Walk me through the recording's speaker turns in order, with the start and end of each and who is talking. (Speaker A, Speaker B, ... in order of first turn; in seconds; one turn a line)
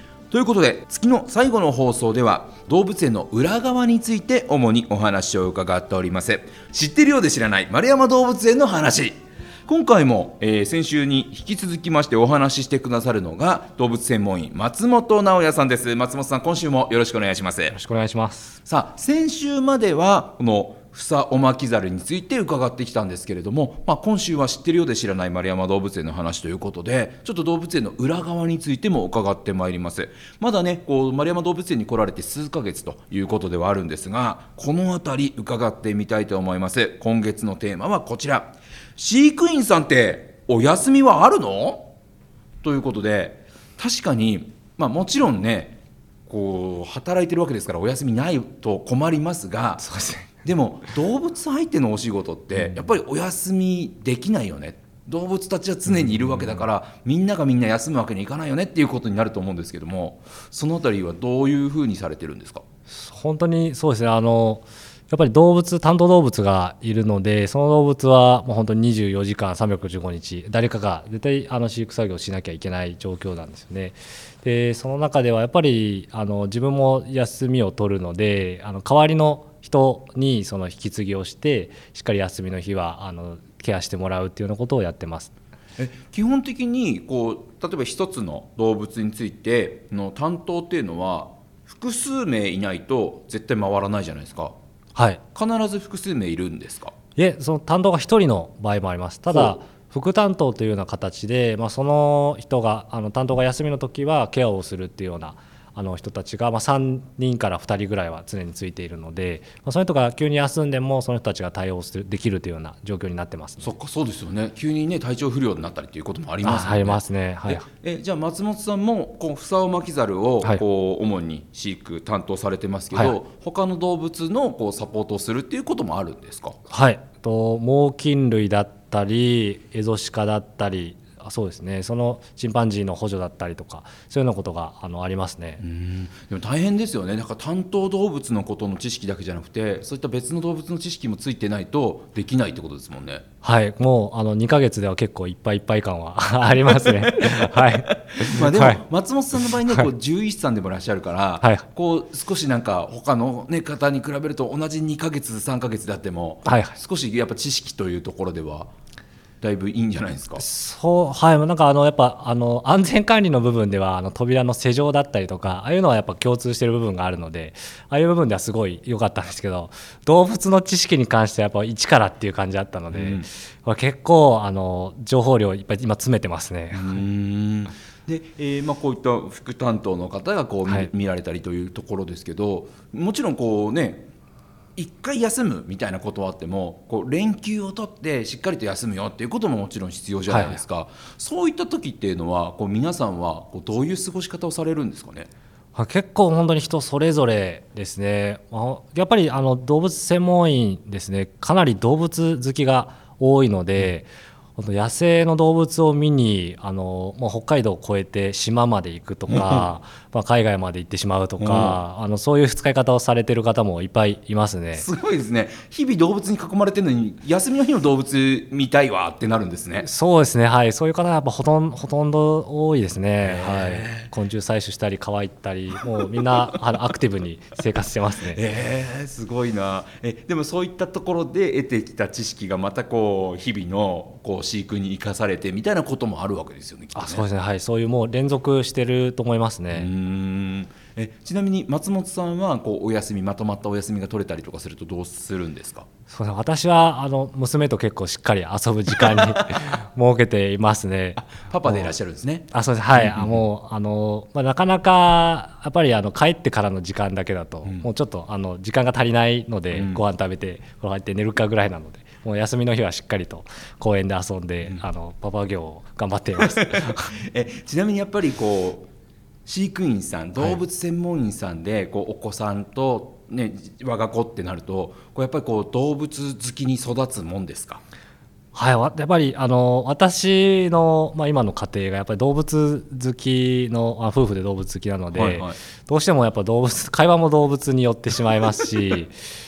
Speaker A: 0.3-17.8
Speaker B: 17.7-18.6
Speaker A: 18.7-41.9
Speaker A: 42.6-49.8
Speaker B: 49.8-50.3
Speaker A: 50.4-62.6
Speaker B: 52.6-52.8
Speaker B: 56.0-56.6
Speaker B: 62.9-85.3
Speaker A: 85.8-94.6
Speaker B: 95.0-95.2
Speaker A: 95.3-96.9
Speaker B: 97.2-113.7
Speaker A: 99.3-99.6
Speaker A: 113.6-126.6
Speaker B: 116.4-117.7
Speaker B: 126.7-135.6
Speaker A: 135.6-143.2
Speaker B: 143.4-148.8
Speaker A: 146.7-158.7
Speaker B: 156.4-156.8
Speaker A: 159.4-160.4
Speaker B: 160.4-177.0
Speaker A: 172.9-173.3
Speaker A: 176.7-184.1
Speaker A: 184.8-195.3
Speaker B: 190.3-190.6
Speaker B: 195.8-214.9
Speaker A: 209.3-209.7
Speaker A: 211.4-211.8
Speaker A: 214.8-219.9
Speaker B: 219.8-228.4
Speaker A: 223.2-224.1
Speaker A: 228.3-237.3
Speaker B: 236.9-239.9
Speaker A: 239.7-245.9
Speaker B: 246.1-251.9
Speaker A: 251.2-253.4
Speaker B: 252.5-267.1
Speaker A: 259.7-260.0
Speaker A: 266.4-268.9
Speaker A: 269.5-277.8
Speaker B: 278.5-289.2
Speaker A: 285.1-285.6